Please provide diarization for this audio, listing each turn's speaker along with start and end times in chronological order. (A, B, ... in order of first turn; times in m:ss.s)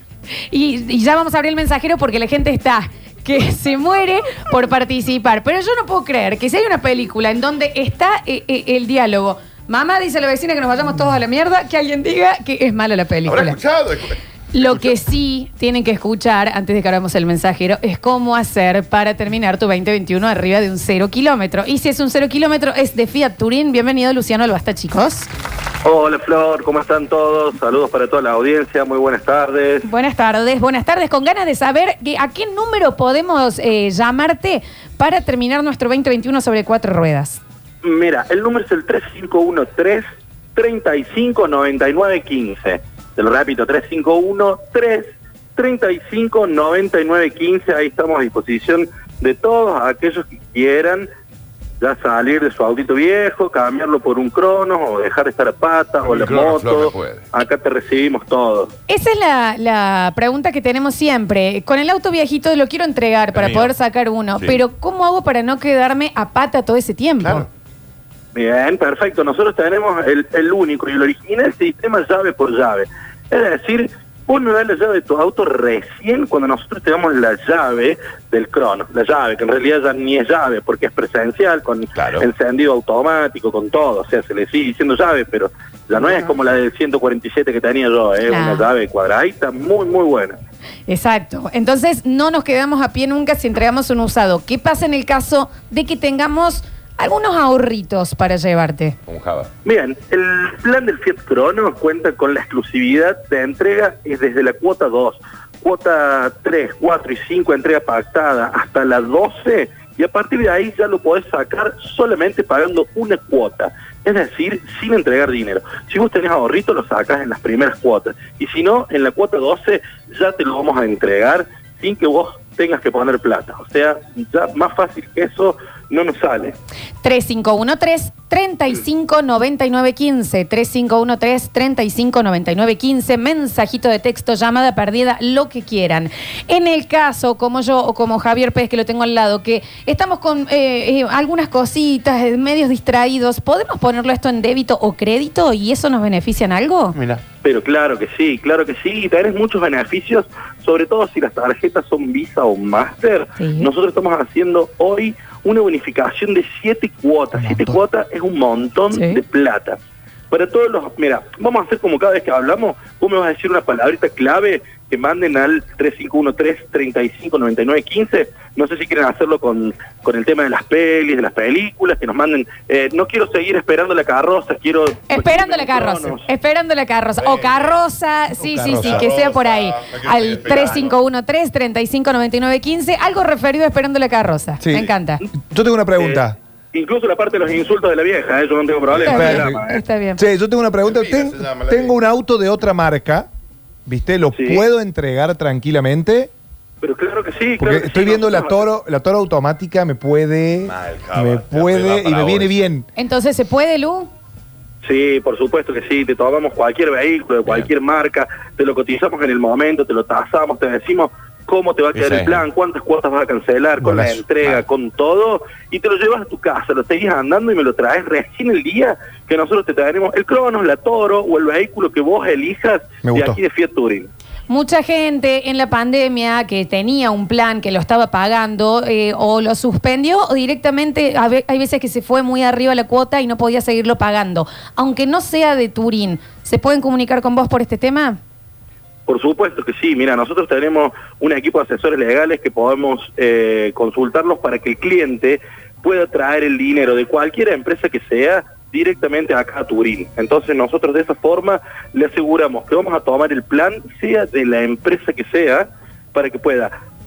0:00.5-0:13.6 A
0:13.2-0:14.9 B
0:14.5-0:25.3 A
0:25.8-0:29.8 C
0:29.8-0:37.4 A
0:37.8-0:40.0 C
0:40.6-0:51.1 C
0:51.8-0:58.7 C
0:56.0-0:57.2 B
0:58.9-1:07.5 A
1:03.3-1:03.7 B
1:07.2-1:07.5 B
1:08.3-1:30.4 C
1:22.0-1:22.3 B
1:28.2-1:28.7 A
1:30.9-1:39.0 A
1:39.1-1:39.5 B
1:39.6-2:06.6 C
2:07.0-2:27.0 A
2:26.9-2:27.2 B
2:27.4-2:39.8 C
2:33.4-2:33.7 A
2:37.4-2:37.8 D
2:38.9-2:39.2 A
2:40.3-2:56.2 C
2:55.1-3:05.2 A
2:57.2-2:57.8 B
2:58.4-2:59.0 D
2:58.7-3:00.9 B
3:04.6-3:04.9 D
3:05.5-3:06.4 D
3:06.0-3:09.8 C
3:09.0-3:10.2 A
3:09.0-3:09.6 D
3:10.2-3:13.3 D
3:10.8-3:11.9 B
3:13.9-3:16.3 D
3:14.3-3:14.6 C
3:16.8-3:18.7 C
3:17.6-3:22.9 D
3:20.6-3:22.7 B
3:23.0-3:24.1 A
3:24.8-3:44.1 C
3:31.9-3:32.4 B
3:33.8-3:34.2 D
3:43.0-3:43.4 D
3:44.5-3:58.2 A
3:59.1-4:16.7 C